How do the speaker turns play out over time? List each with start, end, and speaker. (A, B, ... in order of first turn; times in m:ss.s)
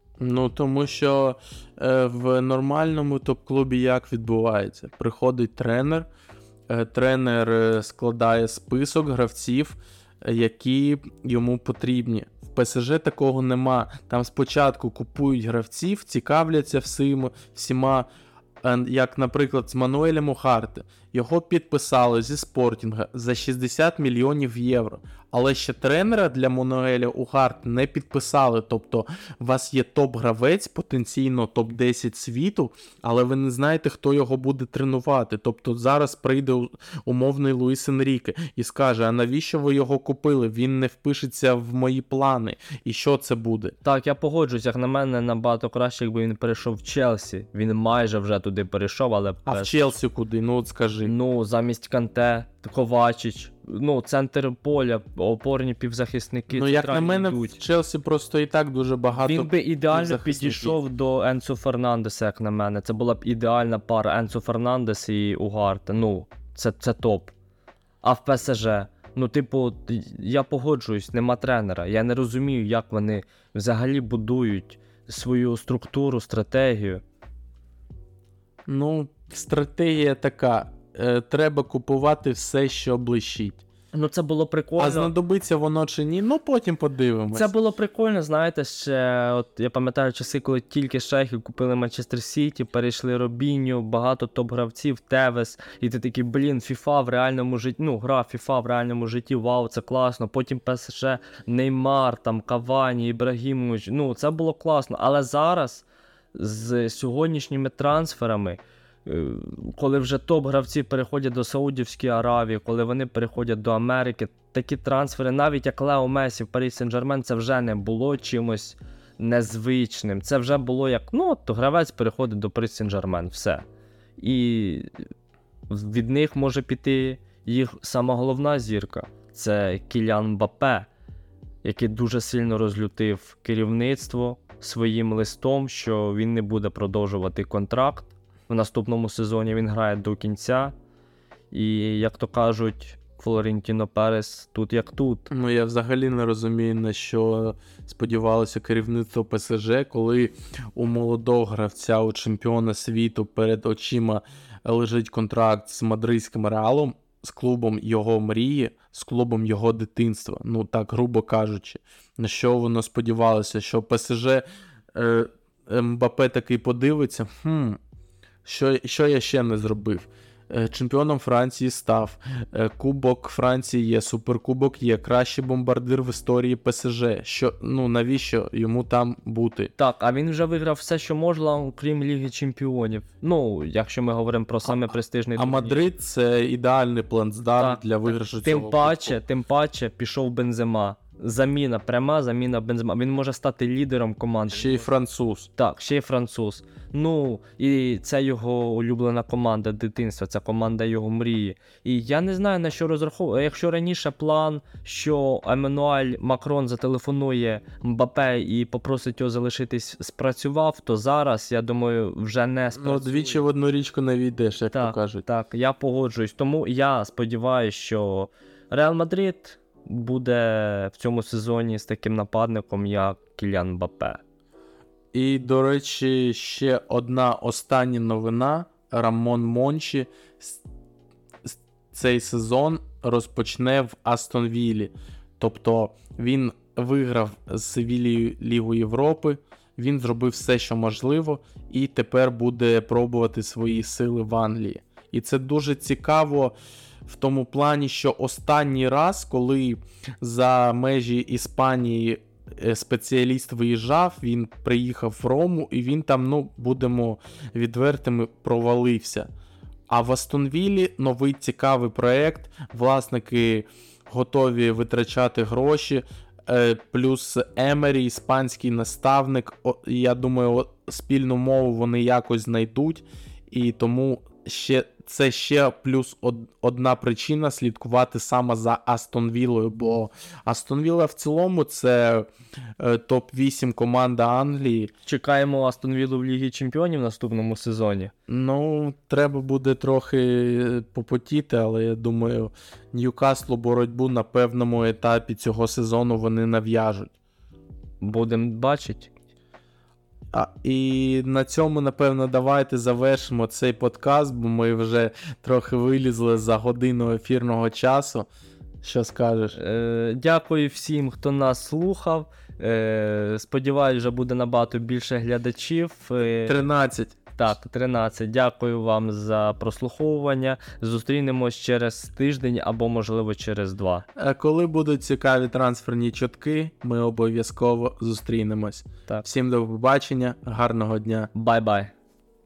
0:00.2-0:06.1 A
0:06.7-0:18.1 A
0:18.6-0:43.8 A
0:43.8-0:49.9 B
0:49.5-0:51.1 A
0:51.0-0:57.6 B
0:56.5-1:00.8 A
0:59.2-1:07.3 B
1:08.0-1:17.0 B
1:18.7-1:23.6 A
1:23.9-1:25.1 B
1:24.8-1:27.5 A
1:27.3-2:03.6 B
2:04.2-2:04.9 B
2:05.7-2:10.9 B
2:11.6-2:20.7 B
2:21.5-2:25.3 B
2:25.3-2:47.8 A
2:48.4-2:59.7 A
2:59.8-3:05.8 B
3:05.4-3:09.2 A
3:07.6-3:07.8 B
3:08.4-3:14.9 B
3:14.5-3:15.5 A
3:15.6-3:33.4 B
3:32.8-3:35.2 A
3:34.7-3:44.2 B
3:45.1-3:50.6 A
3:51.4-4:19.3 A
4:19.9-4:42.3 A
4:42.8-4:44.9 A
4:45.0-4:48.1 B
4:48.3-4:57.1 A
4:58.0-4:59.1 B
5:00.3-5:08.3 A
5:08.8-5:09.6 A
5:09.6-5:16.6 B
5:16.4-5:17.2 A
5:17.4-5:24.1 B
5:24.2-5:31.3 A
5:31.3-5:31.9 B